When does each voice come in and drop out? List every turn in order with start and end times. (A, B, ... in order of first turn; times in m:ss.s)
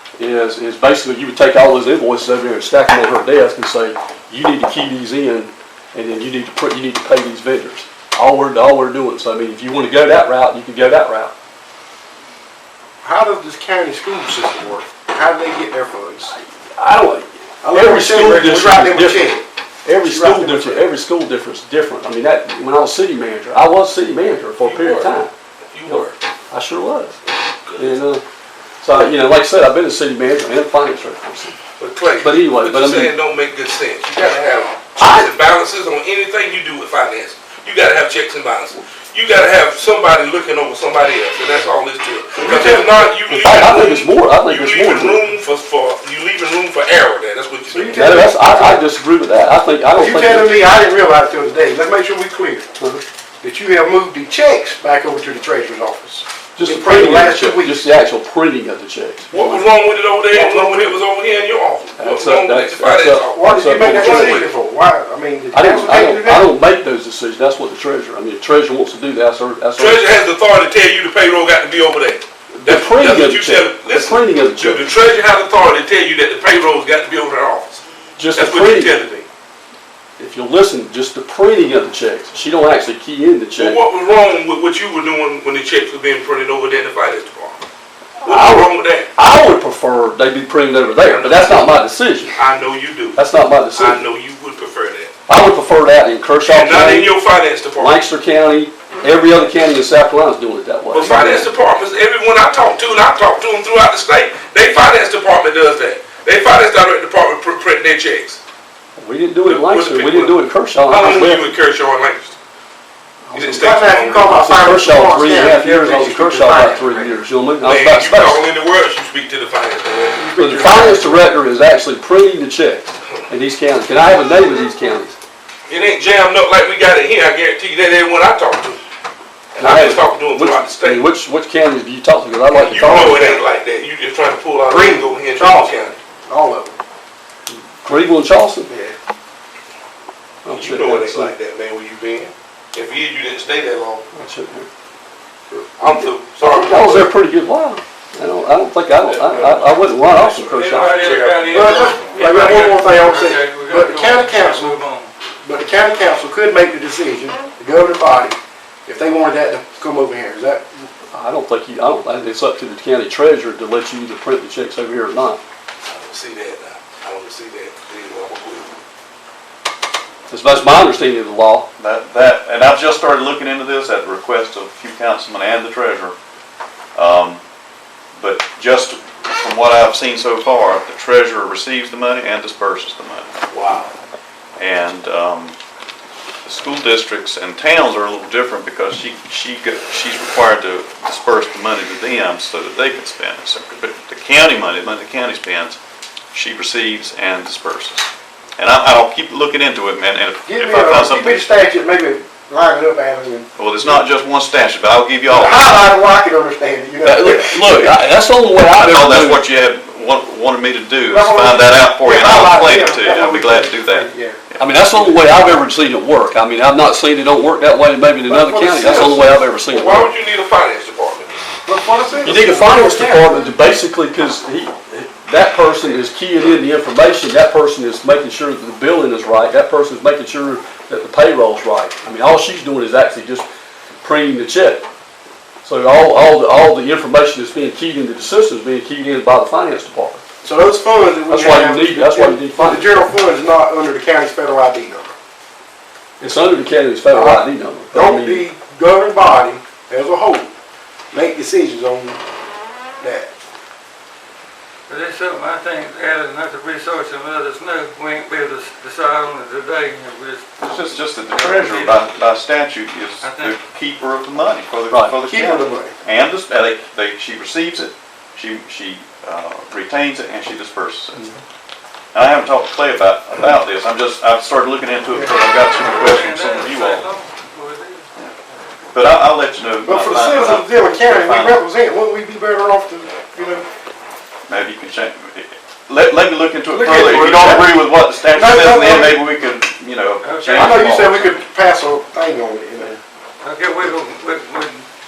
0:00.2-0:11.3 A
0:13.0-0:16.3 B
0:16.3-0:19.3 A
0:17.6-0:19.4 B
0:19.8-0:25.3 A
0:20.0-0:20.9 B
0:24.6-0:25.2 C
0:25.7-0:26.1 C
0:25.9-0:27.2 A
0:27.7-0:27.9 C
0:27.8-0:28.2 A
0:28.8-0:31.6 A
0:31.8-0:48.1 C
0:32.2-0:33.1 A
0:35.0-0:35.3 A
0:42.4-0:43.1 B
0:43.3-0:45.2 A
0:47.7-0:48.8 B
0:47.9-0:50.5 A
0:50.0-0:52.7 B
0:53.4-0:57.9 B
0:56.6-0:59.6 A
0:59.3-1:04.4 C
1:00.3-1:01.0 B
1:02.0-1:04.4 A
1:03.3-1:06.5 B
1:05.5-1:10.0 A
1:09.8-1:17.8 C
1:12.6-1:14.9 A
1:18.2-1:18.9 A
1:18.3-1:19.3 C
1:20.2-1:23.8 A
1:23.6-1:27.6 C
1:28.2-1:32.4 A
1:28.2-1:29.1 C
1:30.9-1:31.7 C
1:32.3-1:33.2 C
1:33.2-1:34.0 A
1:33.7-1:35.1 C
1:35.3-1:37.1 A
1:36.4-1:38.0 C
1:37.8-1:41.5 A
1:40.9-1:48.4 C
1:49.0-1:51.5 A
1:49.5-1:52.4 C
1:53.3-1:54.5 C
1:53.4-1:57.2 B
1:54.4-1:58.4 A
1:57.6-2:00.3 C
2:00.2-2:01.2 B
2:00.4-2:05.2 A
2:05.7-2:08.8 C
2:09.5-2:11.0 C
2:09.6-2:13.4 A
2:12.5-2:16.0 C
2:14.7-2:16.8 B
2:17.5-2:18.7 A
2:18.7-2:18.9 B
2:20.4-2:21.3 A
2:20.5-2:24.1 C
2:24.1-2:24.7 A
2:25.8-2:27.1 C
2:25.8-2:31.1 A
2:29.0-2:32.3 C
2:30.5-2:35.1 D
2:31.4-2:34.8 B
2:35.4-2:40.7 B
2:41.1-2:45.4 A
2:45.8-2:48.7 C
2:50.3-2:51.7 A
2:51.8-2:56.1 E
2:56.9-2:57.4 E
2:58.2-3:03.3 E
3:03.5-3:03.9 C
3:04.6-3:05.6 E
3:06.4-3:15.8 E
3:16.3-3:21.5 E
3:20.4-3:24.0 B
3:23.6-3:25.7 E
3:25.3-3:27.8 B
3:27.0-3:29.4 A
3:28.8-3:34.7 E
3:31.1-3:34.4 B
3:34.6-3:40.1 A
3:34.9-3:35.5 B
3:38.3-3:39.4 B
3:39.7-3:41.4 C
3:41.6-3:43.4 B
3:42.2-3:53.5 A
3:54.0-3:54.9 A
3:55.6-4:00.2 A
4:00.4-4:05.1 B
4:01.3-4:03.1 A
4:06.2-4:08.4 A
4:07.1-4:10.5 B
4:11.1-4:12.2 B
4:13.0-4:13.3 B
4:14.9-4:20.5 D
4:20.6-4:31.4 E
4:21.1-4:22.1 D
4:23.2-4:23.5 D
4:24.9-4:25.1 A
4:25.2-4:25.9 B
4:32.1-4:37.1 E
4:35.7-4:38.0 D
4:38.9-4:41.6 E
4:39.8-4:43.6 B
4:44.5-4:51.4 E
4:46.7-4:49.2 B
4:50.2-4:50.9 D
4:50.5-4:53.0 B
4:53.4-4:54.8 D